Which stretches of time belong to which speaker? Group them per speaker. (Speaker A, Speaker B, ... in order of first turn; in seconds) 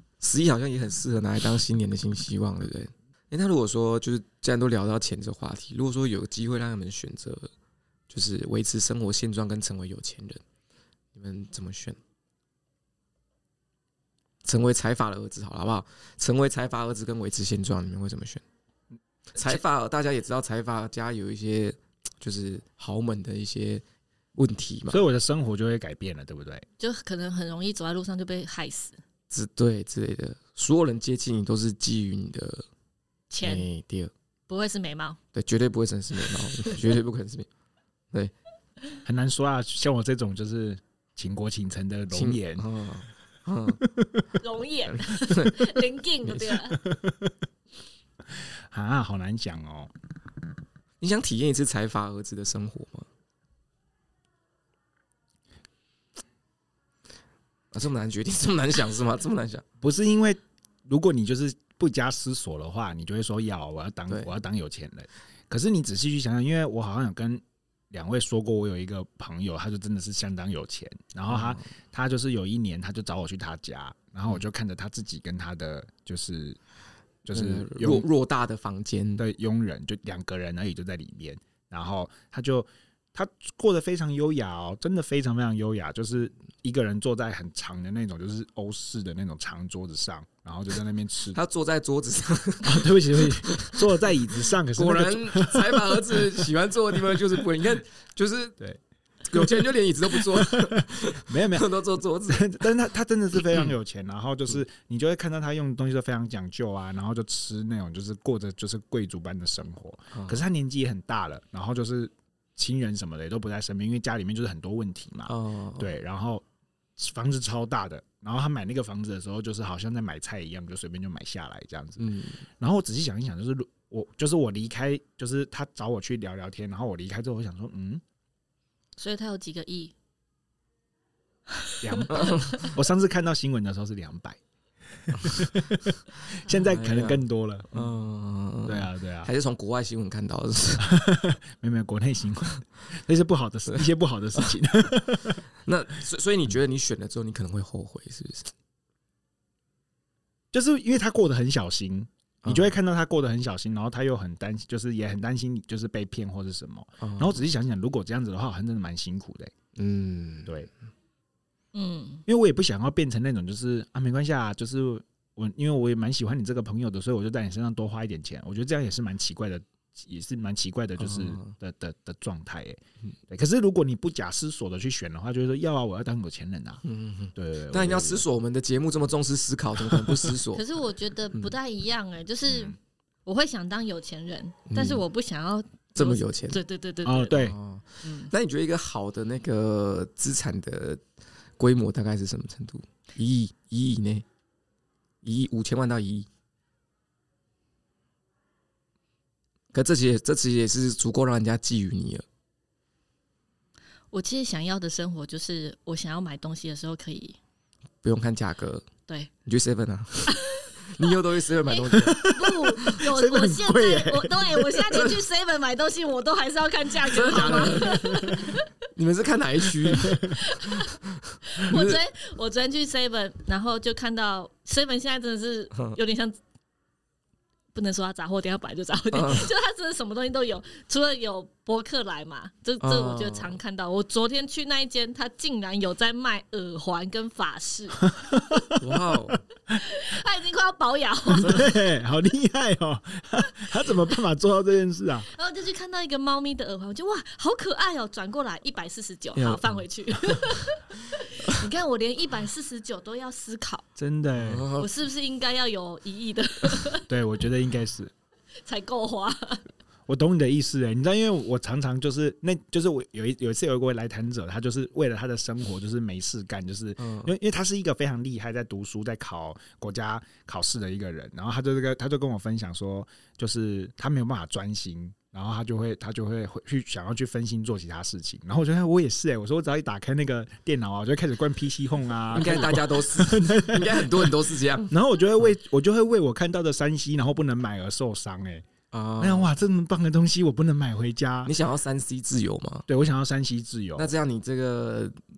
Speaker A: 0.2-7.5, 8.1-10.4, 11.1-12.0, 14.4-18.4, 19.4-23.8, 24.4-25.1, 29.3-32.6, 33.4-34.1, 35.3-37.5, 42.1-43.8, 44.9-46.7, 51.0-53.1, 57.7-59.6, 71.3-71.6, 77.3-79.2, 91.3-98.6, 99.2-102.5, 110.1-110.4, 115.2-115.9, 122.0-122.4, 132.1-132.6, 135.2-135.5, 136.5-140.9, 145.7-148.5, 152.4-152.7, 157.0-157.4, 159.7-160.5, 171.0-171.5, 176.8-180.6, 184.7-185.0, 185.9-186.6, 187.3-191.0, 191.6-194.2, 195.2-196.3, 199.7-202.2, 208.0-208.9, 209.4-212.9, 214.9-215.2, 217.0-222.0, 229.1-229.5, 232.8-233.6, 238.8-239.4, 241.4-241.7, 249.3-249.8, 254.4-254.9, 267.0-267.3, 282.3-284.9, 288.9-289.5, 291.4-292.9, 293.9-295.2
Speaker B: 24.9-26.6, 39.0-42.6, 43.8-44.3, 46.8-47.3, 48.7-49.9, 59.8-76.6, 77.2-78.1, 79.2-91.4, 92.6-96.4, 97.1-97.4, 99.3-101.7, 102.3-116.4, 117.0-128.0, 131.8-134.4, 135.0-137.9, 138.6-139.3, 140.8-145.4, 150.5-159.5, 162.3-176.8, 177.3-178.2, 182.5-182.8, 187.0-187.6, 211.9-215.0, 217.9-218.3, 238.0-238.8, 241.3-245.3, 254.0-254.7, 257.1-258.1, 260.1-284.3, 284.9-288.6, 289.2-291.5, 292.9-294.1
Speaker C: 26.8-29.0, 33.3-33.7, 34.5-35.2, 36.4-36.8, 44.4-46.8, 129.0-129.9, 131.6-132.4, 161.7-162.2, 180.5-187.3, 188.0-188.3, 204.1-207.4, 210.3-218.7, 220.1-221.0, 221.5-226.4, 227.7-238.1, 239.7-241.7, 245.3-253.9, 254.8-257.1, 258.6-259.6